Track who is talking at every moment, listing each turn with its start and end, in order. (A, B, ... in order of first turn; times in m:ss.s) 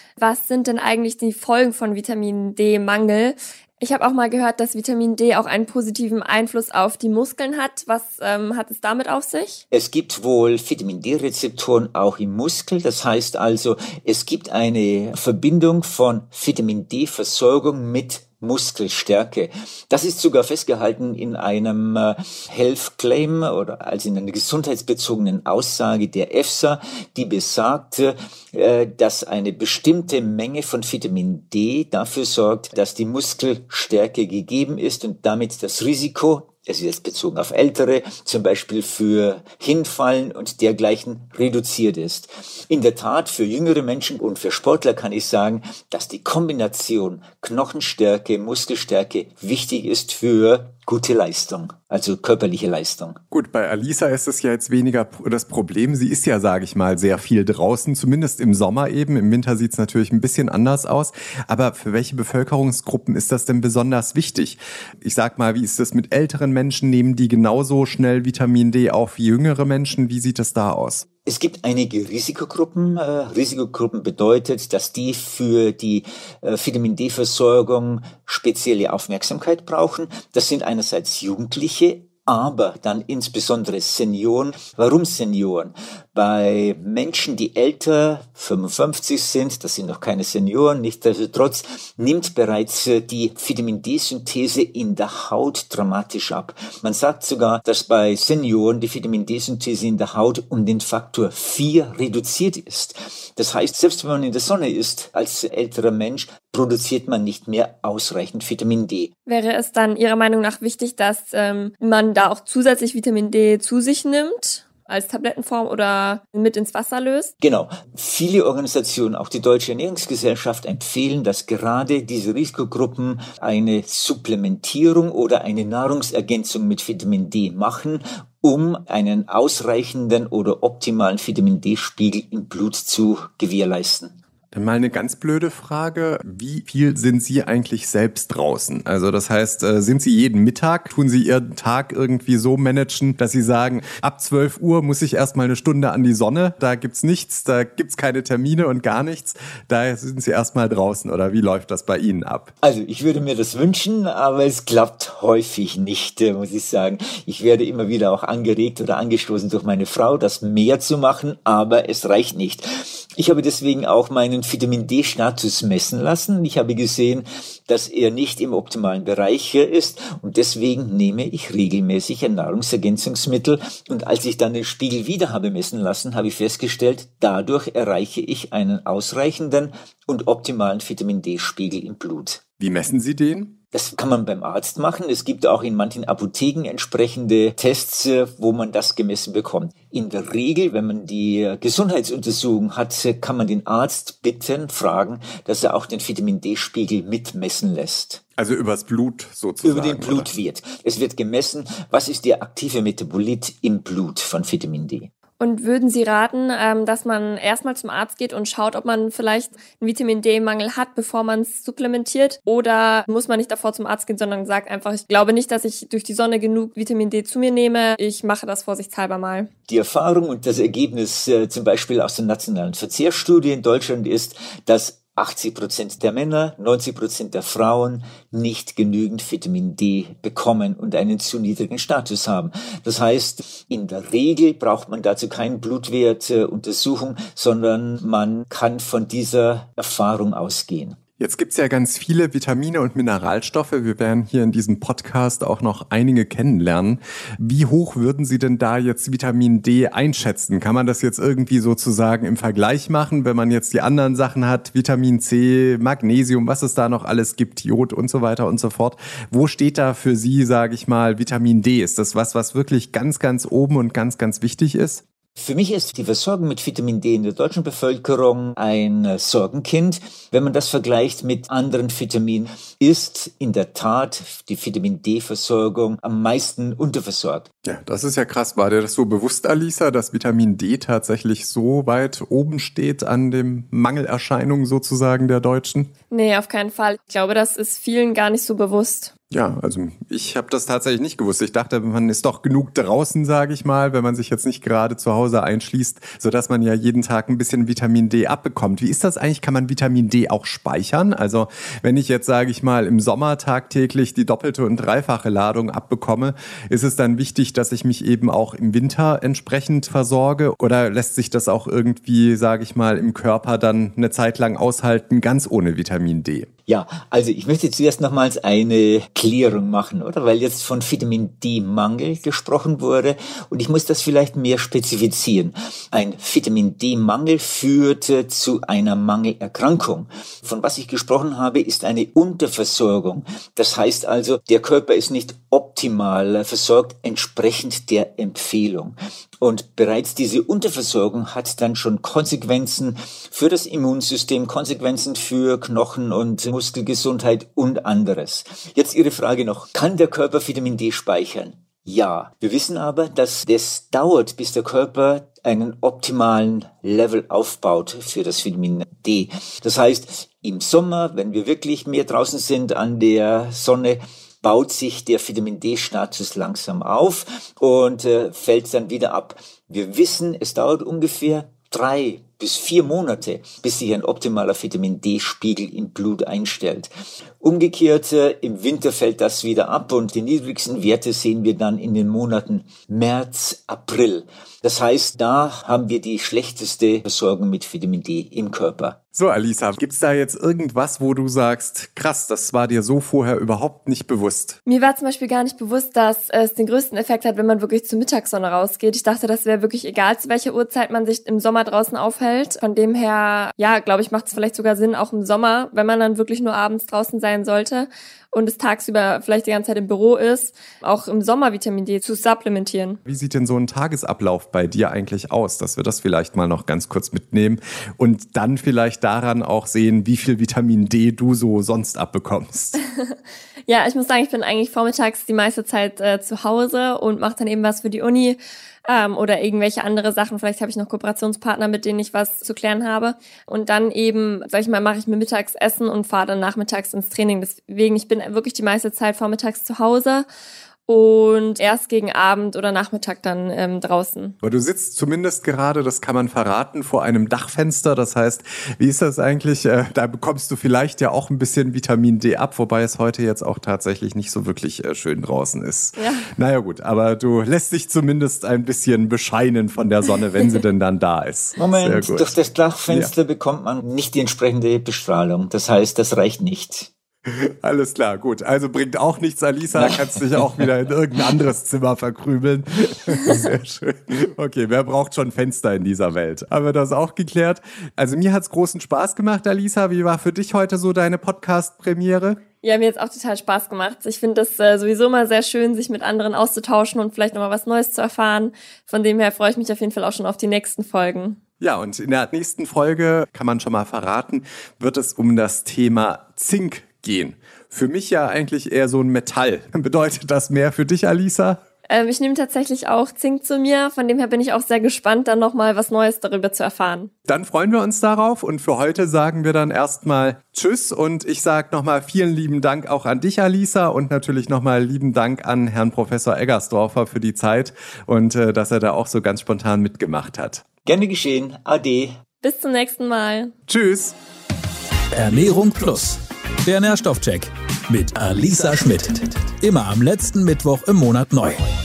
0:00.2-0:09.6 A
0:09.7-0:53.2 B
0:53.3-1:11.0 C
1:11.2-1:49.1 B
1:49.3-1:57.3 A
1:57.4-2:14.2 B
2:14.5-2:32.5 C
2:32.6-3:02.4 B
3:02.6-3:03.6 C
3:03.7-3:18.2 B
3:18.4-3:20.3 C
3:19.6-3:25.1 B
3:25.4-3:39.5 A
3:39.7-4:01.0 B
4:01.2-4:25.0 C
4:25.4-4:37.5 B
4:37.6-4:45.9 C
4:46.1-4:49.1 A
4:49.3-5:16.5 C
5:16.7-6:16.9 B
6:17.4-6:29.0 B
6:29.1-6:34.6 C
6:34.6-6:53.0 A
6:53.0-7:02.8 C
7:03.7-7:20.2 A
7:20.9-7:24.3 A
7:24.4-7:42.4 C
7:36.0-7:36.3 A
7:41.6-7:46.9 B
7:47.2-8:02.4 C
7:49.7-7:50.7 B
8:02.6-8:11.4 A
8:11.6-8:21.6 C
8:21.9-8:27.1 A
8:27.3-8:40.6 C
8:40.8-8:42.2 B
8:42.4-8:43.5 A
8:43.7-8:44.1 C
8:45.1-8:51.7 D